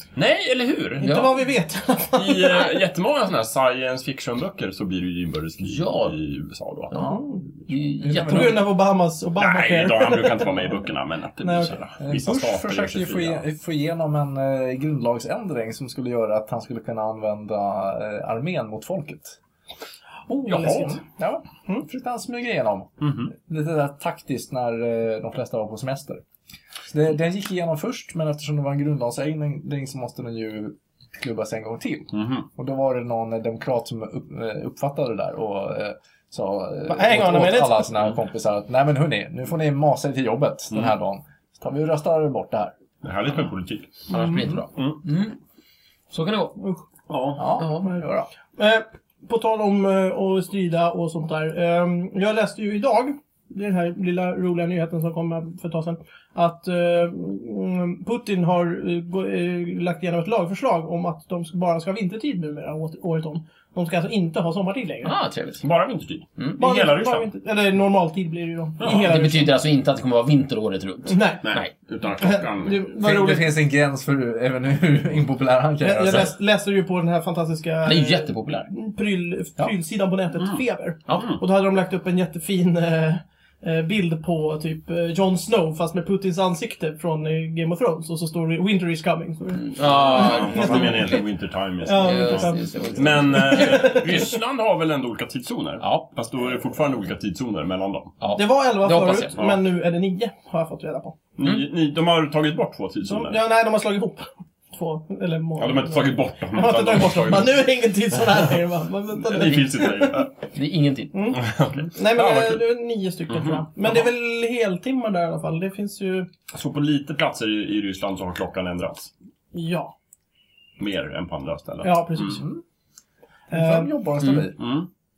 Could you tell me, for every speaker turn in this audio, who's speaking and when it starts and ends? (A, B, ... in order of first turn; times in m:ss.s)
0:00.1-0:01.2 A
0:01.0-0:01.4 B
0:01.0-0:02.7 C
0:02.1-0:06.9 A
0:05.6-0:06.2 B
0:06.9-0:08.6 B
0:07.0-0:07.4 C
0:08.0-0:08.6 D
0:08.3-0:10.6 C
0:09.4-0:13.4 A
0:11.4-0:11.7 C
0:12.0-0:19.4 D
0:20.3-0:21.8 C
0:20.4-0:21.0 A
0:21.8-0:26.2 D
0:23.0-0:23.3 A
0:26.9-0:42.7 D
0:32.1-0:32.4 A
0:36.9-0:37.9 C
0:43.0-0:44.0 A
0:44.1-0:45.4 B
0:44.1-0:44.4 C
0:46.1-0:46.6 B
0:47.1-0:47.4 A
0:47.4-0:48.3 D
0:47.6-0:47.9 B
0:48.6-1:05.1 C
1:05.0-1:05.6 B
1:05.6-1:07.3 A
1:06.6-1:09.6 C
1:08.8-1:09.1 A
1:08.8-1:11.7 B
1:11.1-1:11.5 C
1:11.4-1:12.8 A
1:12.2-1:13.6 C
1:13.0-1:16.3 D
1:15.8-1:31.2 C
1:17.8-1:18.7 B
1:21.1-1:21.4 A
1:29.6-1:31.2 B
1:29.8-1:38.1 A
1:31.8-1:34.3 C
1:32.0-1:34.0 B
1:35.8-1:36.1 B
1:38.2-1:39.4 B
1:38.4-1:41.2 C
1:39.3-1:39.6 A
1:41.4-1:43.4 A
1:43.0-1:50.2 C
1:45.6-1:47.6 A
1:49.1-1:50.3 A
1:50.5-1:51.3 B
1:51.1-1:51.4 C
1:51.3-1:52.6 A
1:51.9-1:56.3 C
1:53.3-1:54.1 A
1:56.5-1:59.1 A
1:59.5-1:59.9 C
2:00.8-2:02.4 A
2:01.8-2:02.5 C
2:02.3-2:02.6 D
2:03.5-2:04.6 D
2:03.5-2:03.9 C
2:04.2-2:04.5 B
2:04.6-2:04.9 A